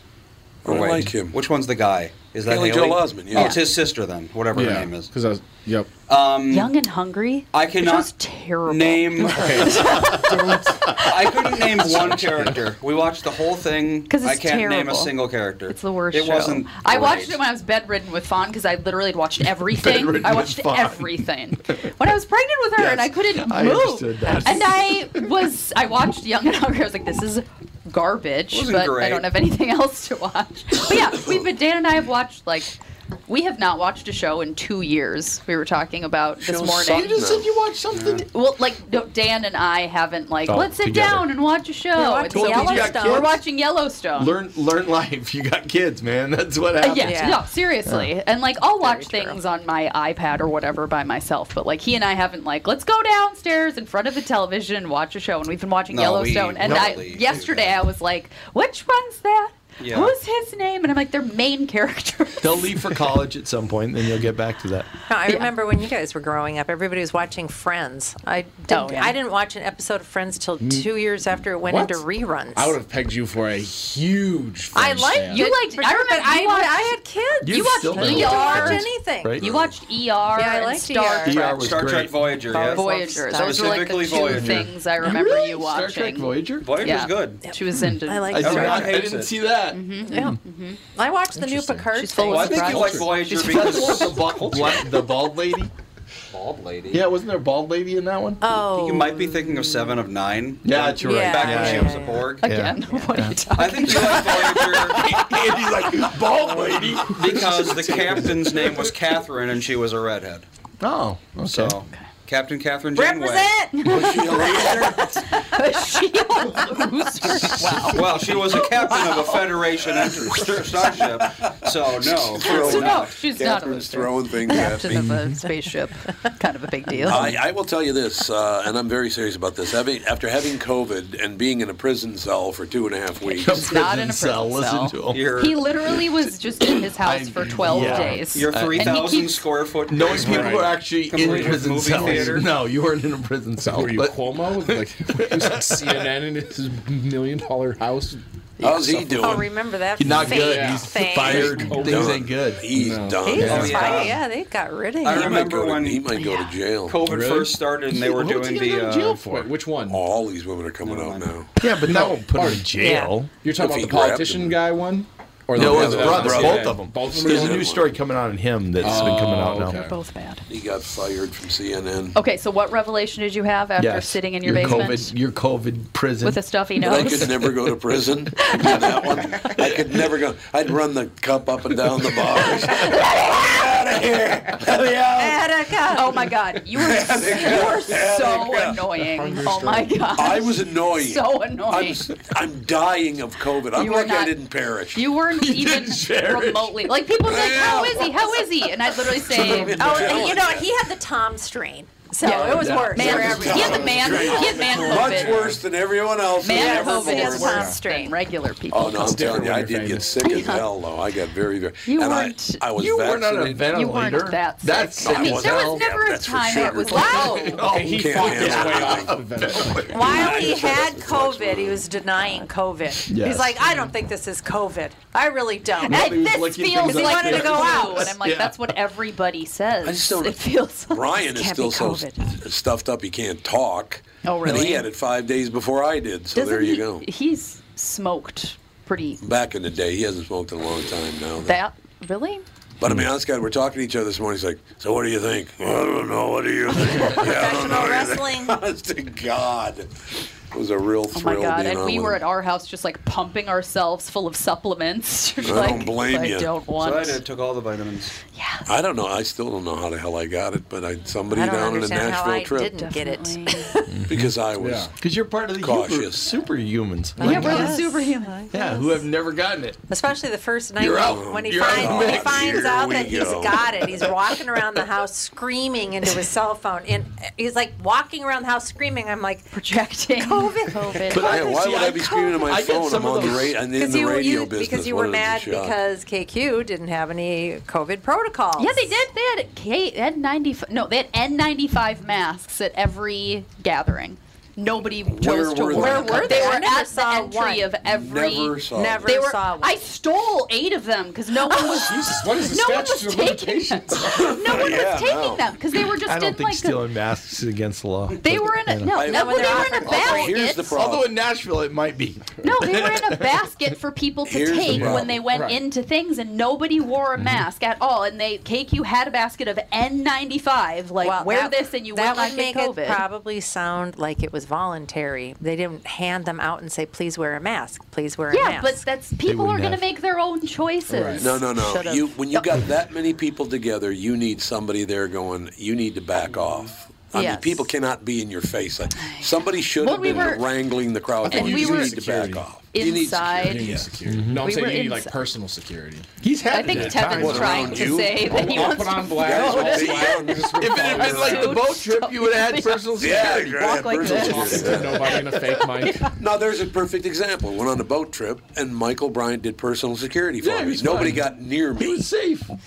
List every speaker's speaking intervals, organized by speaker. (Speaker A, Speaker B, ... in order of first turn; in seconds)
Speaker A: 0.6-5.1, 6.1-6.7, 7.5-8.1, 8.7-9.8, 11.0-17.4, 28.5-29.3, 37.9-38.2, 55.9-57.8, 59.8-60.1, 81.3-84.7, 86.6-87.4, 88.4-89.5, 92.2-94.9, 96.3-97.0, 98.6-102.5, 103.5-105.0, 107.0-110.5, 111.4-113.6, 117.9-123.2, 135.1-135.6, 138.2-142.5, 153.4-154.2, 155.0-156.1, 156.8-159.2, 160.8-161.3, 165.9-166.8, 256.8-258.1
Speaker B: 0.6-1.4, 2.4-3.6, 36.4-37.6, 79.4-79.7, 113.8-115.1, 120.0-120.4, 122.0-125.1, 127.0-133.8, 148.6-149.5, 151.2-154.1, 155.1-157.0, 159.9-161.6, 163.6-164.6, 165.5-168.0, 168.8-169.1, 170.5-172.2, 176.8-185.4, 186.7-188.8, 190.2-195.0, 197.2-198.2, 199.2-200.7, 203.0-207.7, 208.7-213.8, 215.0-217.4, 217.9-219.1, 220.0-221.9, 229.8-237.1, 239.2-241.6, 242.8-252.2, 255.4-256.5, 258.7-262.7, 264.1-264.9, 265.6-266.4, 271.0-274.1, 281.2-285.8, 295.1-296.6, 297.8-299.1, 304.1-305.4, 308.9-311.2, 314.2-315.2, 331.2-343.9, 346.7-351.6, 353.0-355.4, 356.1-362.1
Speaker C: 3.3-3.6, 6.5-10.6, 14.1-15.1, 15.7-32.7, 33.3-37.1, 38.3-44.3, 46.8-62.6, 65.2-65.5, 68.7-69.2, 75.3-81.5, 82.6-88.7, 89.7-90.8, 91.9-93.2, 102.4-104.8, 113.8-119.4, 122.4-127.3, 133.2-139.4, 169.7-170.4, 172.1-175.1, 176.2-177.5, 178.5-179.1, 182.8-183.2, 185.9-192.0, 193.7-194.3, 194.9-200.3, 202.2-205.6, 206.4-209.2, 210.2-210.7, 211.8-212.6, 213.7-217.6, 222.2-222.5, 225.8-231.1, 234.2-234.9, 236.3-239.2, 241.4-242.4, 251.1-257.2, 258.3-258.6, 262.7-263.7, 267.2-268.8, 279.5-281.4, 288.6-306.8, 308.2-310.7, 312.4-323.0, 328.3-332.4, 337.1-337.6, 339.0-340.5, 341.3-342.0, 342.7-343.8, 344.3-345.1, 346.5-354.4, 355.2-356.0
Speaker D: 4.5-5.9, 9.3-11.0, 70.6-70.9, 71.6-75.5, 91.3-91.9, 140.2-142.4, 143.6-149.4, 150.1-153.3, 157.0-157.6, 159.2-160.0, 161.8-167.8, 168.8-169.9, 189.0-190.1, 203.3-205.6, 207.5-207.8, 208.9-210.2, 217.7-220.2, 264.6-264.9, 301.9-304.3, 314.7-315.6, 330.9-331.2, 340.0-340.3, 341.2-342.5, 343.4-346.1, 348.1-351.6, 353.9-356.1
Speaker E: 9.7-10.2, 11.9-12.5, 19.7-21.9, 22.8-25.3, 36.9-38.2, 40.5-41.3, 42.3-43.4, 44.1-47.3, 56.6-57.0, 62.4-64.9, 77.4-79.4, 81.2-82.3, 84.3-86.9, 87.8-90.3, 93.1-95.7, 96.9-98.4, 100.6-103.4, 104.5-108.9, 110.8-111.8, 117.6-118.4, 124.9-125.4, 133.4-135.3, 137.0-139.2, 139.9-145.8, 150.0-152.7, 153.3-153.9, 157.9-159.5, 161.6-163.4, 165.5-169.8, 173.8-176.4, 195.4-196.9, 202.4-204.1, 212.7-215.8, 217.1-220.6, 223.1-223.6, 225.8-228.7, 263.9-264.3, 264.9-267.8, 268.5-269.8, 270.8-272.7, 281.1-283.6, 306.1-309.0, 310.8-313.2, 314.7-315.0, 317.2-317.4, 329.2-329.8, 344.1-344.5, 346.2-348.1, 350.5-355.0, 360.4-362.5
Speaker F: 41.9-43.4, 47.0-47.4, 48.8-49.3, 65.1-72.8, 74.7-79.4, 80.3-81.4, 82.4-83.9, 87.5-89.0, 90.0-90.4, 90.9-92.9, 98.4-99.9, 101.0-102.3, 112.9-115.2, 124.5-124.8, 125.3-125.7, 126.9-127.3, 149.2-151.8, 153.2-156.5, 162.7-163.2, 185.1-186.3, 199.3-204.5, 206.4-208.2, 216.5-217.7, 219.9-228.1, 231.3-232.2, 247.0-248.6, 261.3-263.9, 267.2-268.9, 269.9-279.5, 280.1-281.3, 283.6-289.0, 295.7-297.7, 298.7-299.8, 301.5-301.9, 309.0-310.4, 321.0-328.8